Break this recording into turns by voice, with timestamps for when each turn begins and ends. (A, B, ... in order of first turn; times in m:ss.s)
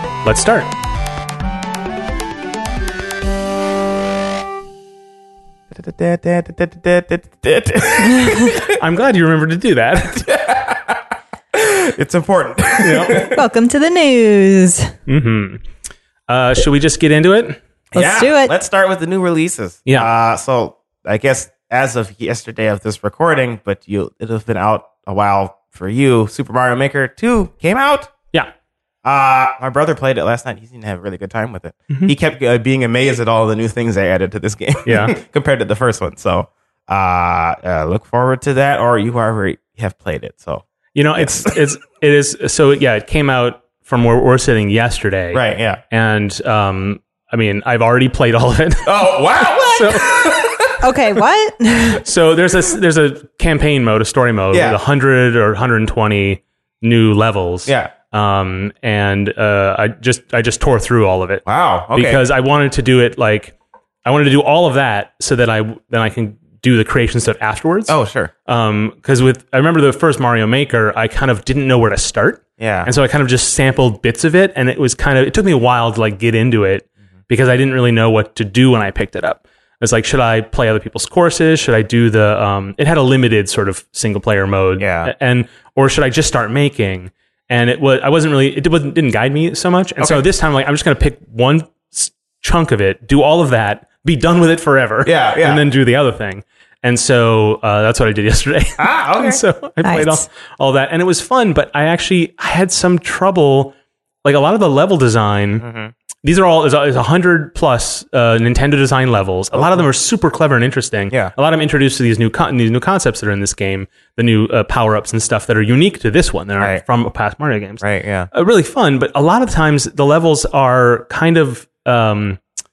0:00.2-0:00.7 A
0:05.7-0:08.8 B
0:08.7-0:10.3 A
0:10.2-0:13.4 B
0:12.8-0:13.2 A
0:13.2-0:14.9 C
0:15.1-0:15.6 A
0:16.3-0:17.6 A
0:17.9-0:28.1 B
0:18.0-0:18.5 C
0:29.0-0:40.6 B
0:34.9-0:35.2 A
0:41.0-0:50.5 A
0:41.2-0:41.6 B
0:45.3-0:45.8 B
0:48.8-0:50.9 B
0:50.8-0:52.0 C
0:52.0-1:03.5 A
0:54.5-0:54.8 B
0:57.7-0:57.9 B
1:01.4-1:02.2 B
1:04.0-1:45.6 A
1:07.9-1:08.3 B
1:12.6-1:12.9 B
1:24.8-1:25.1 B
1:30.0-1:30.2 B
1:35.0-1:35.6 B
1:38.8-1:39.4 B
1:39.8-1:40.2 C
1:45.6-1:45.9 B
1:46.2-2:02.4 A
1:49.5-1:49.8 B
1:57.8-1:58.3 B